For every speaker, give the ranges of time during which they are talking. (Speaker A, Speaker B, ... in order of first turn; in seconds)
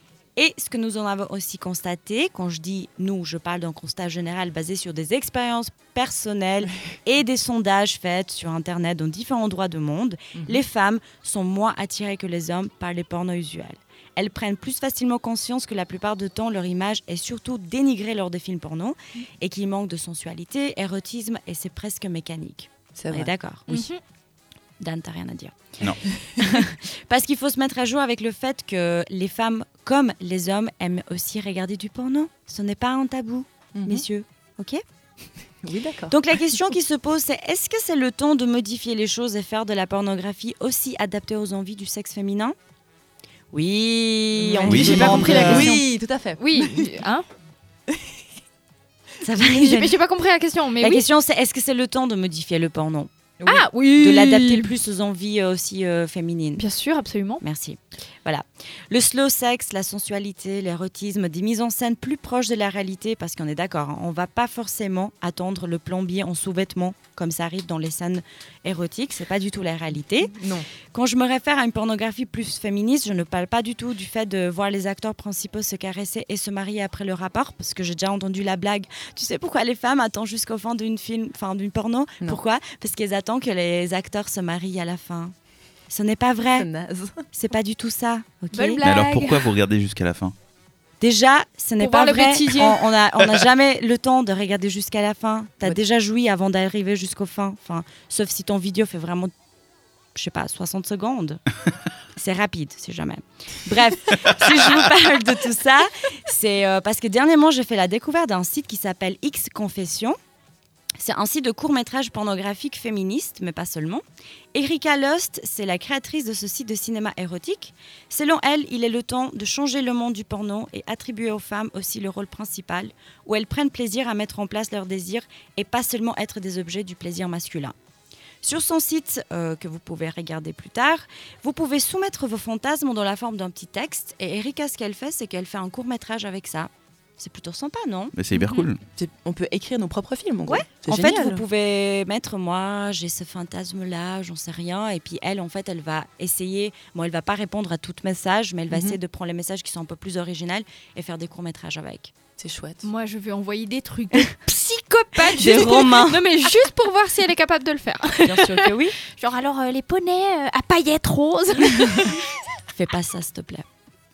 Speaker A: 0.3-23.9, 24.8-25.8, 26.4-34.8, 36.1-42.5, 43.5-45.7, 49.2-50.0, 50.8-53.1, 54.0-56.6, 57.4-70.4, 70.9-85.3, 85.9-86.7, 87.3-88.9, 91.0-99.3, 100.1-101.4, 102.1-110.2, 111.0-114.0, 114.5-127.7, 128.4-138.1, 140.4-152.1, 155.2-156.2, 158.2-159.0, 162.7-163.6
Speaker B: 10.3-10.6, 22.9-23.3, 33.7-34.0, 35.6-36.1, 44.4-46.9, 70.3-70.7, 86.5-87.2, 138.9-141.4, 148.7-149.0, 152.4-152.9
Speaker C: 23.7-24.0, 44.7-47.3, 49.4-51.0, 53.4-54.7, 56.6-57.4, 88.5-89.5, 91.8-92.8, 152.8-162.2
Speaker D: 44.7-45.7, 88.8-90.3, 138.1-138.8